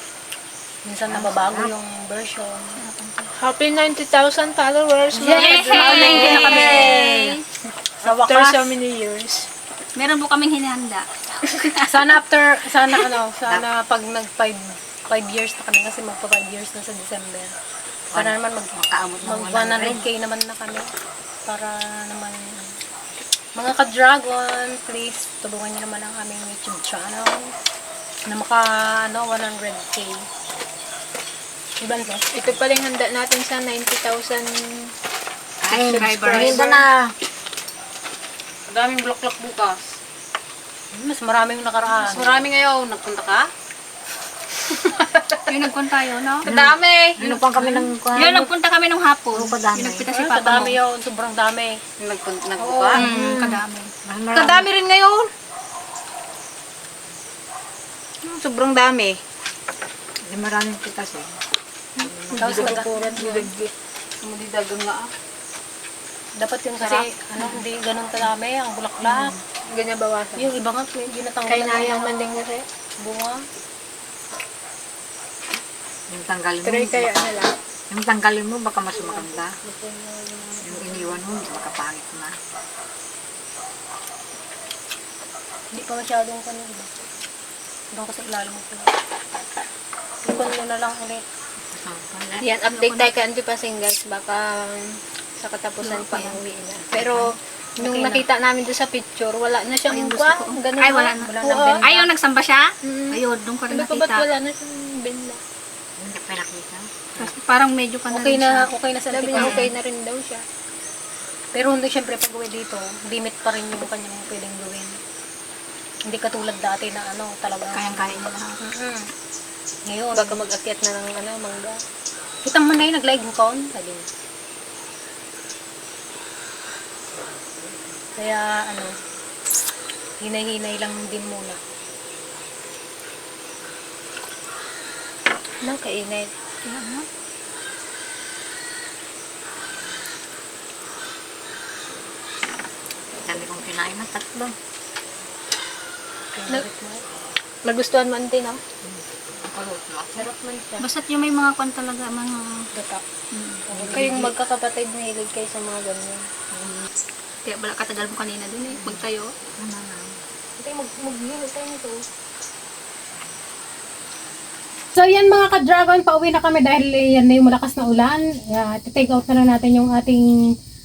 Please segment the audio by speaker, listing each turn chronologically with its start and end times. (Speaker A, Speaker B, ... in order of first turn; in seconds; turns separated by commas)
Speaker A: 0.8-2.8, Speaker B: 1.1-1.7, Speaker C: 2.8-3.3, Speaker D: 3.4-7.0, Speaker A: 5.1-7.2, Speaker C: 5.3-7.4, Speaker A: 8.0-8.7, Speaker D: 8.0-9.5, Speaker C: 9.9-12.1, Speaker A: 11.8-17.5, Speaker A: 18.1-20.9, Speaker B: 18.1-20.1, Speaker A: 21.4-22.8, Speaker A: 23.5-27.5, Speaker A: 28.3-30.2, Speaker A: 31.8-32.3, Speaker D: 32.3-34.9, Speaker B: 35.6-37.0, Speaker C: 35.7-36.6, Speaker D: 35.7-36.7, Speaker E: 38.7-39.8, Speaker A: 40.9-42.5, Speaker E: 42.0-43.5, Speaker C: 45.5-46.5, Speaker B: 46.4-48.5, Speaker E: 46.4-47.4, Speaker C: 47.5-50.8, Speaker B: 49.3-50.1, Speaker A: 50.1-51.7, Speaker E: 52.0-53.1, Speaker B: 52.0-54.7, Speaker D: 52.6-53.0, Speaker C: 52.9-53.9, Speaker E: 54.3-55.3, Speaker E: 58.2-59.2, Speaker B: 60.2-61.4, Speaker B: 62.0-62.8, Speaker D: 62.3-63.7, Speaker A: 62.4-62.9, Speaker E: 64.3-64.6, Speaker D: 64.7-65.0, Speaker A: 66.4-69.3, Speaker D: 69.7-70.5, Speaker A: 70.3-72.2, Speaker D: 71.5-72.7, Speaker A: 73.0-73.4, Speaker B: 76.1-77.1, Speaker D: 76.6-77.5, Speaker B: 77.9-79.5, Speaker A: 79.7-80.6, Speaker B: 80.6-82.4, Speaker A: 85.7-87.1, Speaker A: 87.9-88.9, Speaker A: 90.2-91.2, Speaker B: 91.7-92.5, Speaker D: 92.4-102.0, Speaker C: 92.7-93.1, Speaker C: 95.8-96.4, Speaker A: 97.8-98.2, Speaker C: 99.9-104.2, Speaker A: 101.2-101.8, Speaker D: 102.8-105.4, Speaker B: 106.0-107.3, Speaker C: 107.2-108.7, Speaker A: 108.1-109.7, Speaker D: 109.1-110.4, Speaker C: 109.3-109.7, Speaker A: 111.5-114.9, Speaker A: 116.0-119.1, Speaker C: 117.7-118.6, Speaker A: 119.9-120.4, Speaker D: 120.1-121.7, Speaker A: 122.4-124.1, Speaker B: 127.2-128.0, Speaker A: 128.1-128.9, Speaker A: 130.2-131.6, Speaker A: 135.6-136.3, Speaker C: 136.6-137.1, Speaker B: 143.2-144.5, Speaker A: 146.3-147.0, Speaker D: 147.6-148.6, Speaker B: 148.8-150.2, Speaker A: 150.1-150.9, Speaker C: 150.8-152.6, Speaker A: 152.7-153.0, Speaker C: 153.3-154.0, Speaker A: 153.7-154.3, Speaker D: 153.9-156.2, Speaker C: 157.4-159.3, Speaker B: 158.7-159.1, Speaker B: 159.6-160.2, Speaker A: 160.6-162.0, Speaker A: 164.9-170.3